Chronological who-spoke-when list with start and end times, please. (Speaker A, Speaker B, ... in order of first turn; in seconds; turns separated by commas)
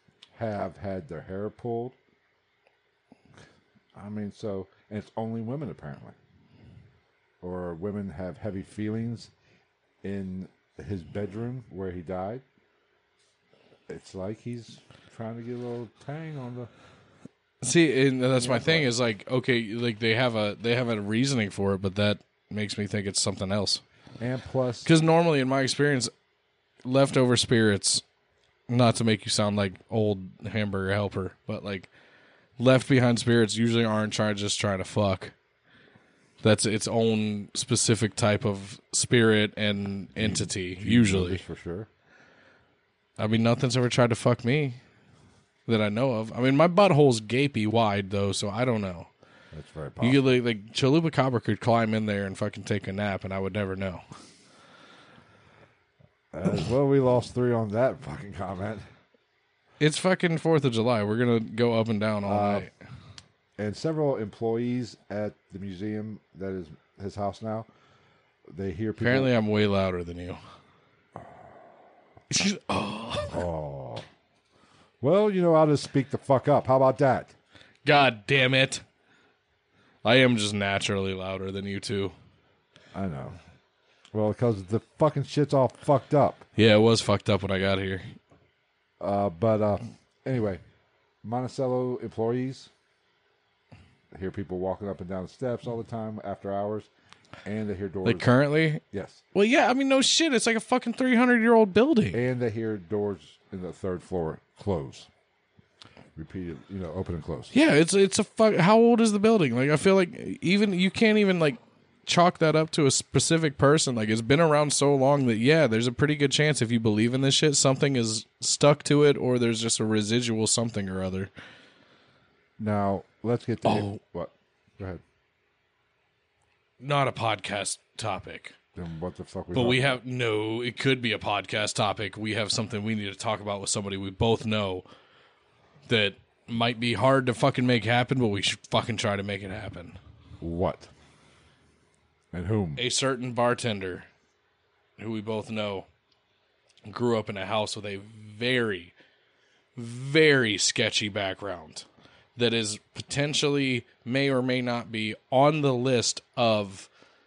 Speaker A: 0.3-1.9, Speaker A: 3.9-6.1, Speaker A: 7.4-9.3, Speaker A: 10.0-12.4, Speaker A: 13.9-16.7, Speaker B: 17.6-23.8, Speaker A: 18.4-18.9, Speaker A: 24.2-24.9, Speaker B: 24.8-26.1, Speaker B: 26.8-28.0, Speaker B: 28.7-31.9, Speaker B: 32.6-35.3, Speaker B: 36.4-41.4, Speaker A: 40.2-41.9, Speaker B: 43.2-44.8, Speaker B: 45.7-49.1, Speaker A: 49.5-50.2, Speaker B: 50.0-54.0, Speaker A: 56.3-58.8, Speaker B: 59.8-62.7, Speaker A: 62.2-62.7, Speaker A: 63.6-67.7, Speaker A: 68.5-69.3, Speaker B: 69.0-70.4, Speaker B: 72.3-73.4, Speaker A: 73.3-74.0, Speaker A: 75.0-77.3, Speaker B: 77.8-78.8, Speaker B: 80.0-82.1, Speaker A: 82.9-83.4, Speaker A: 84.1-86.5, Speaker B: 86.5-88.1, Speaker A: 89.0-90.6, Speaker A: 91.2-92.7, Speaker A: 94.1-96.9, Speaker A: 97.4-98.3, Speaker B: 98.0-98.8, Speaker A: 98.9-99.2, Speaker B: 99.3-102.2, Speaker A: 102.1-105.1, Speaker A: 106.2-107.5, Speaker B: 107.5-121.3, Speaker A: 122.6-125.0, Speaker B: 123.6-124.0, Speaker B: 126.8-128.6, Speaker A: 128.7-130.0, Speaker B: 129.5-134.8, Speaker B: 135.9-140.0, Speaker A: 140.4-140.9, Speaker A: 142.3-142.8, Speaker B: 142.8-144.1, Speaker B: 145.0-145.9, Speaker B: 146.9-148.9, Speaker B: 149.8-156.9